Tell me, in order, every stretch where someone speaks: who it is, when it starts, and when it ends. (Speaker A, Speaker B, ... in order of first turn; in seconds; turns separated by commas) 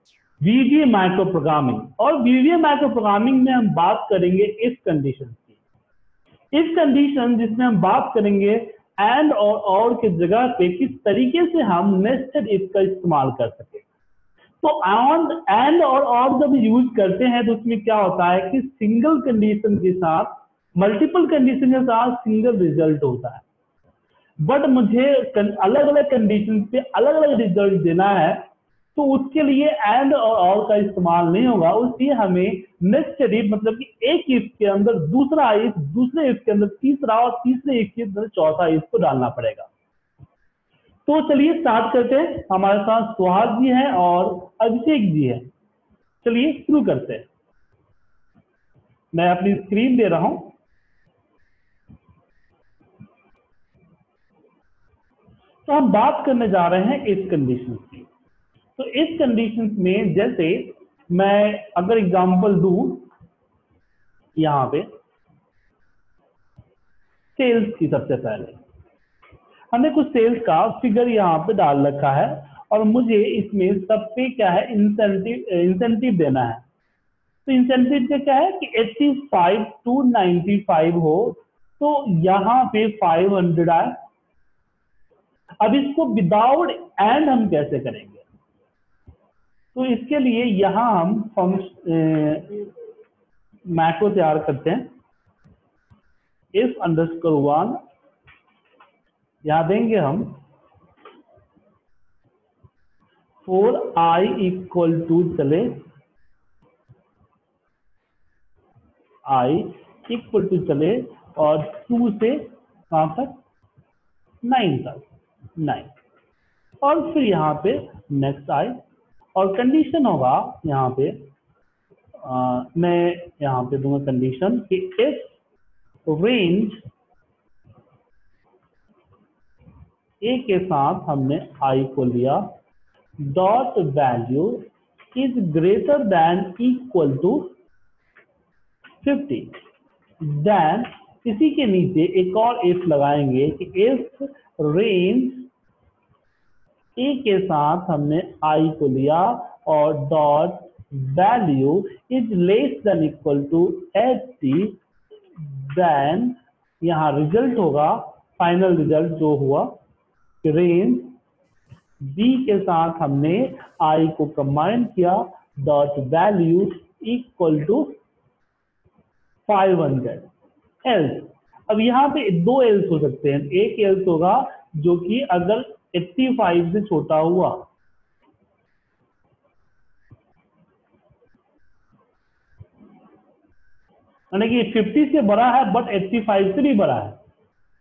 Speaker A: 0.4-5.5, Speaker A: 6.5-13.8, Speaker A: 14.6-23.4, Speaker A: 24.4-39.7, Speaker A: 41.1-45.5, Speaker A: 46.2-47.3, Speaker A: 49.1-50.5, Speaker A: 55.7-58.1, Speaker A: 58.8-63.1, Speaker A: 64.4-64.9, Speaker A: 67.4-68.6, Speaker A: 69.7-76.6, Speaker A: 77.5-84.0, Speaker A: 85.6-88.2, Speaker A: 89.8-92.7, Speaker A: 93.7-94.9, Speaker A: 96.5-97.8, Speaker A: 99.4-100.4, Speaker A: 103.5-105.8, Speaker A: 109.3-113.4, Speaker A: 114.4-115.9, Speaker A: 116.8-118.8, Speaker A: 119.3-121.3, Speaker A: 122.2-125.3, Speaker A: 126.1-126.8, Speaker A: 130.2-132.6, Speaker A: 133.2-137.5, Speaker A: 139.0-139.6, Speaker A: 140.2-145.5, Speaker A: 147.0-154.8, Speaker A: 155.4-159.8, Speaker A: 160.4-161.2, Speaker A: 162.0-168.0, Speaker A: 169.5-170.3, Speaker A: 170.8-177.7, Speaker A: 184.3-187.2